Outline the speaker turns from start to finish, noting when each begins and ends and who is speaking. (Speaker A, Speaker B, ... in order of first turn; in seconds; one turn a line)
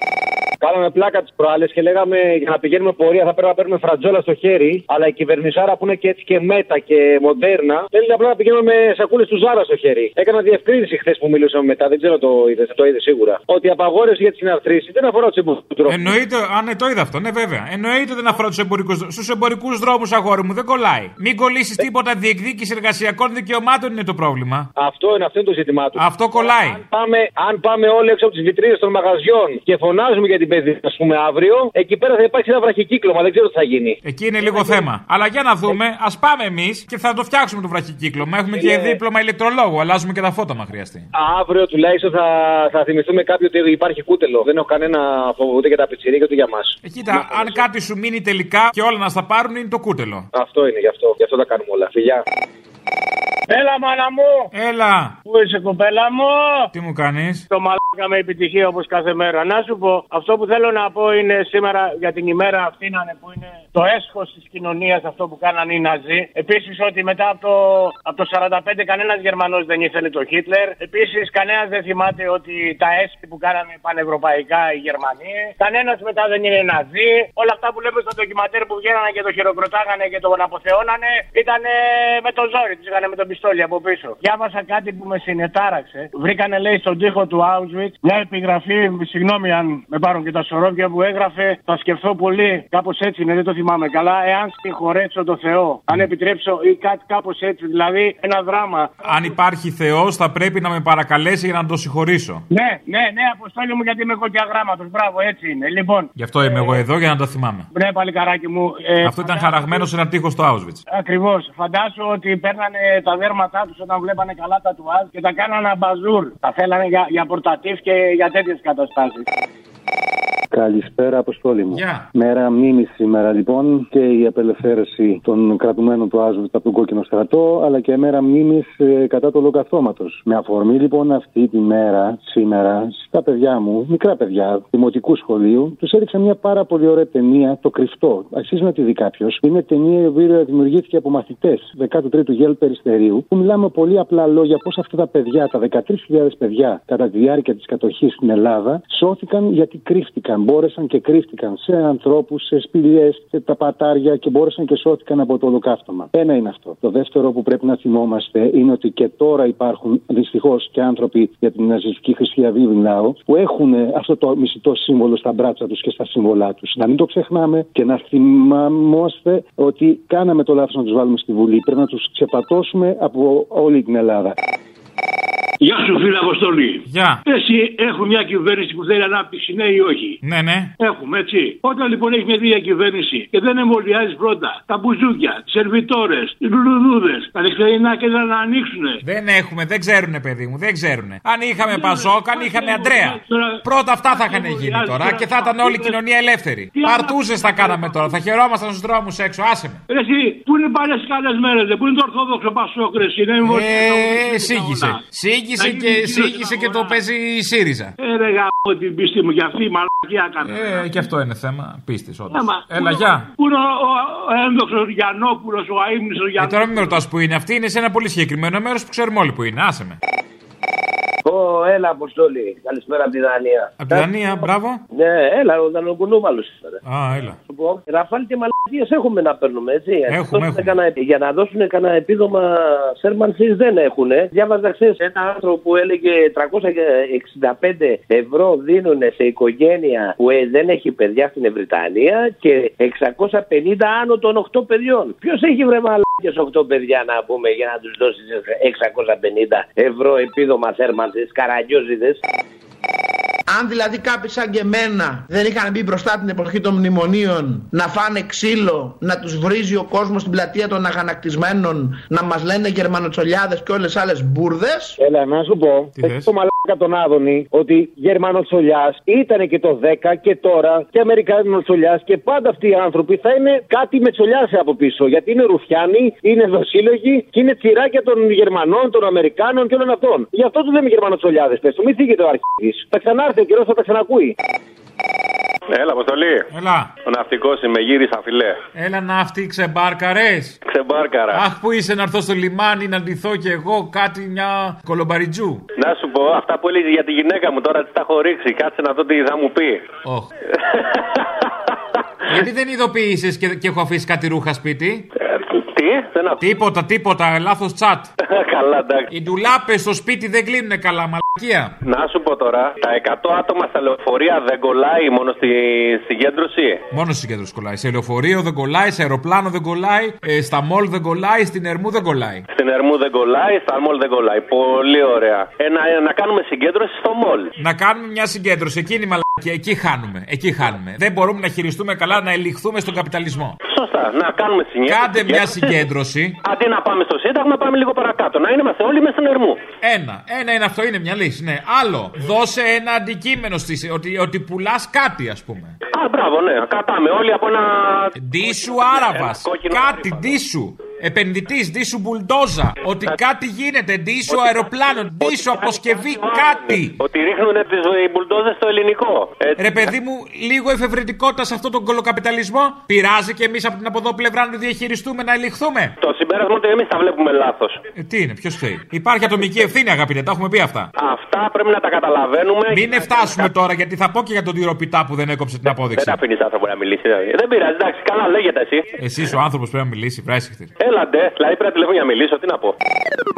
Speaker A: 0.6-16.0
Speaker B: 15.9-24.7
Speaker A: 24.8-34.8
Speaker B: 26.0-26.8
Speaker B: 34.0-41.1
Speaker A: 38.5-39.0
Speaker A: 41.1-47.6
Speaker B: 46.8-50.3
Speaker A: 50.3-52.2
Speaker C: 53.5-54.5
Speaker B: 54.5-55.2
Speaker C: 55.3-56.7
Speaker B: 56.7-57.5
Speaker C: 57.5-99.0
Speaker B: 99.0-102.4
Speaker C: 102.5-106.8
Speaker B: 106.2-107.7
Speaker C: 107.7-109.8
Speaker B: 109.0-110.8
Speaker C: 110.9-119.3
Speaker D: 120.5-174.3
Speaker B: 121.7-122.1
Speaker E: 175.6-180.2
Speaker B: 176.9-177.2
Speaker B: 180.2-180.7
Speaker E: 180.8-189.0
Speaker B: 189.0-199.8
Speaker E: 191.6-196.1
Speaker E: 196.8-198.2
Speaker E: 199.9-205.0
Speaker B: 203.4-207.9
Speaker E: 205.6-207.0
Speaker E: 208.0-211.1
Speaker B: 210.4-213.3
Speaker E: 212.3-217.0
Speaker B: 216.4-220.0
Speaker F: 221.3-224.1
Speaker B: 223.8-224.8
Speaker F: 224.9-226.8
Speaker B: 226.8-227.4
Speaker F: 227.5-252.2
Speaker B: 230.1-230.8
Speaker G: 253.5-265.0
Speaker A: 265.0-284.3
Speaker B: 266.0-266.3
Speaker H: 285.7-286.5
Speaker B: 286.5-287.0
Speaker H: 287.0-288.6
Speaker B: 288.7-290.6
Speaker H: 290.7-291.4
Speaker B: 291.3-295.6
Speaker H: 295.8-299.9
Speaker B: 300.0-300.3
Speaker B: 302.3-305.1
Speaker H: 305.2-306.4
Speaker B: 306.4-308.1
Speaker H: 308.3-309.1
Speaker B: 309.1-311.8
Speaker H: 311.8-316.8
Speaker B: 316.9-322.5
Speaker H: 322.5-327.5
Speaker B: 327.6-333.6
Speaker H: 333.7-335.7
Speaker B: 334.9-336.4
Speaker H: 336.4-339.6
Speaker B: 339.8-345.8
Speaker H: 345.9-348.1
Speaker B: 348.1-357.0
Speaker H: 348.8-350.2
Speaker H: 354.3-359.6
Speaker B: 359.6-365.9
Speaker H: 366.0-367.8
Speaker B: 367.9-370.9
Speaker H: 371.0-373.5
Speaker B: 372.7-376.2
Speaker H: 375.7-378.9
Speaker B: 379.0-380.7
Speaker H: 380.8-382.7